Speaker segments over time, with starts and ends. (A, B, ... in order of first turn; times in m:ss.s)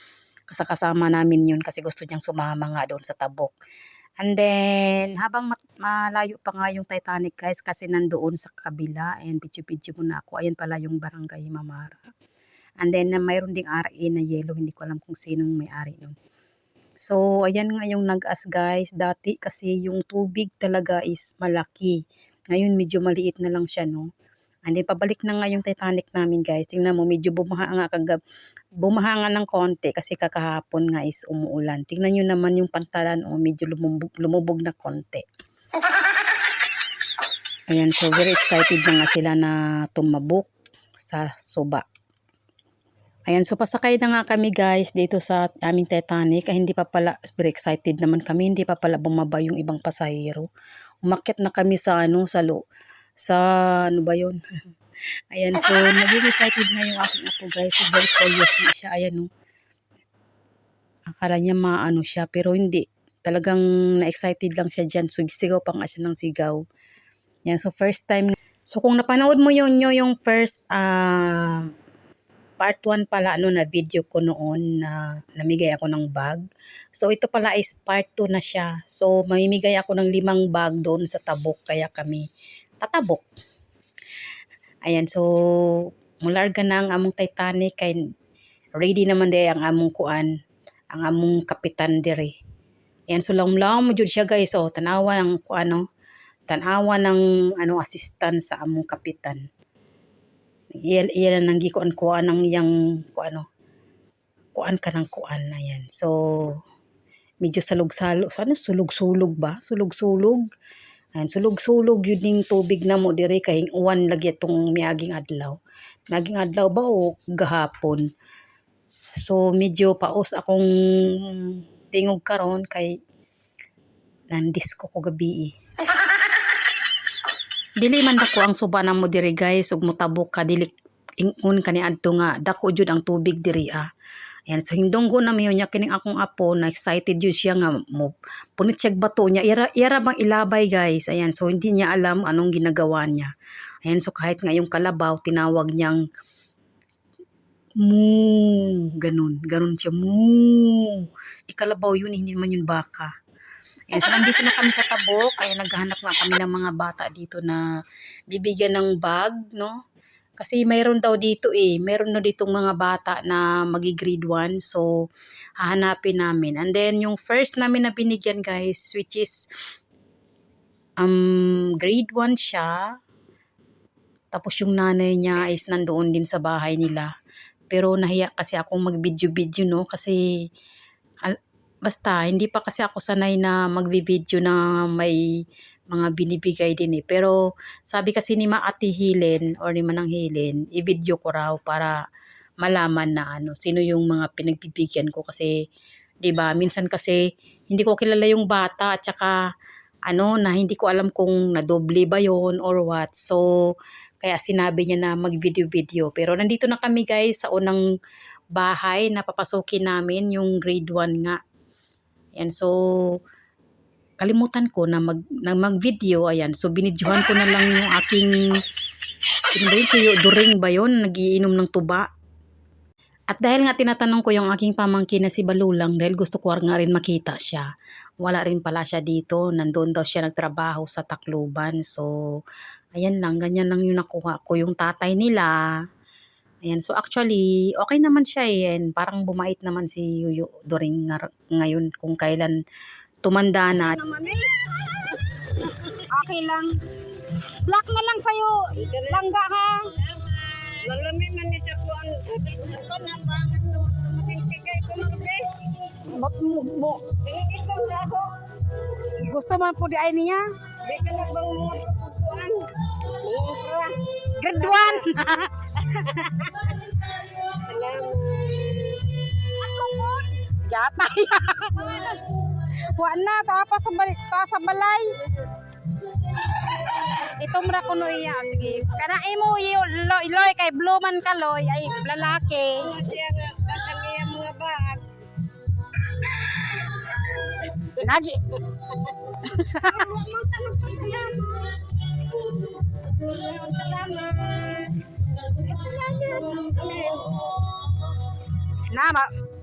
0:00.5-0:03.5 A
0:04.2-0:12.0 A
0:12.8-0:16.2 A
0:17.0-0:22.0 A
0:22.5-0:24.1 A
0:24.7-0:28.2 A
0:28.8-0:35.2 A
0:37.7-0:40.5 A
0:41.0-0:41.8 A
0:43.3-0:50.5 A
0:51.0-0:52.6 A
0:53.2-0:54.4 A
0:55.3-0:59.3 A
1:01.1-1:06.6 A
1:07.5-1:11.7 A
1:12.6-1:16.4 A
1:17.0-1:22.2 A
1:22.8-1:23.2 A
1:24.8-1:25.2 A
1:26.2-1:28.0 A
1:28.8-1:30.3 A
1:30.9-1:32.3 A
1:33.1-1:35.8 A
1:36.5-1:39.4 A
1:40.8-1:43.4 A
1:44.5-1:46.6 A
1:47.4-1:50.4 A
1:51.2-1:55.6 A
1:56.1-1:58.0 A
1:59.2-2:00.7 A
2:01.2-2:02.9 A
2:04.3-2:05.5 A
2:07.8-2:13.9 A
2:14.5-2:23.3 A
2:23.8-2:26.0 A
2:27.8-2:33.1 A
2:33.9-2:37.6 A
2:38.3-2:39.7 A
2:40.4-2:44.9 A
2:45.6-2:49.4 A
2:51.0-2:52.8 A
2:54.3-2:57.1 A
2:57.7-3:00.2 A
3:01.8-3:05.2 A
3:05.9-3:07.4 A
3:07.9-3:11.9 A
3:12.6-3:15.5 A
3:16.2-3:19.3 A
3:20.1-3:23.4 A
3:24.2-3:27.8 A
3:28.6-3:31.4 A
3:32.4-3:32.7 A
3:34.2-3:38.4 A
3:39.5-3:42.0 A
3:43.3-3:47.7 A
3:48.2-3:52.1 A
3:52.9-3:55.6 A
3:56.6-4:02.6 A
4:03.2-4:04.0 A
4:04.1-4:04.4 B
4:06.1-4:06.7 C
4:07.6-4:09.8 C
4:08.8-4:09.3 B
4:10.0-4:15.6 B
4:16.2-4:17.0 C
4:17.1-4:18.4 B
4:19.2-4:20.4 C
4:20.8-4:25.1 B
4:24.4-4:26.5 C
4:26.6-4:30.3 B
4:30.5-4:35.1 C
4:36.9-4:42.9 C
4:42.8-4:45.0 B
4:48.0-4:48.4 C
4:48.9-4:49.2 B
4:49.5-4:50.1 C
4:49.9-4:57.9 B
4:58.9-4:59.3 C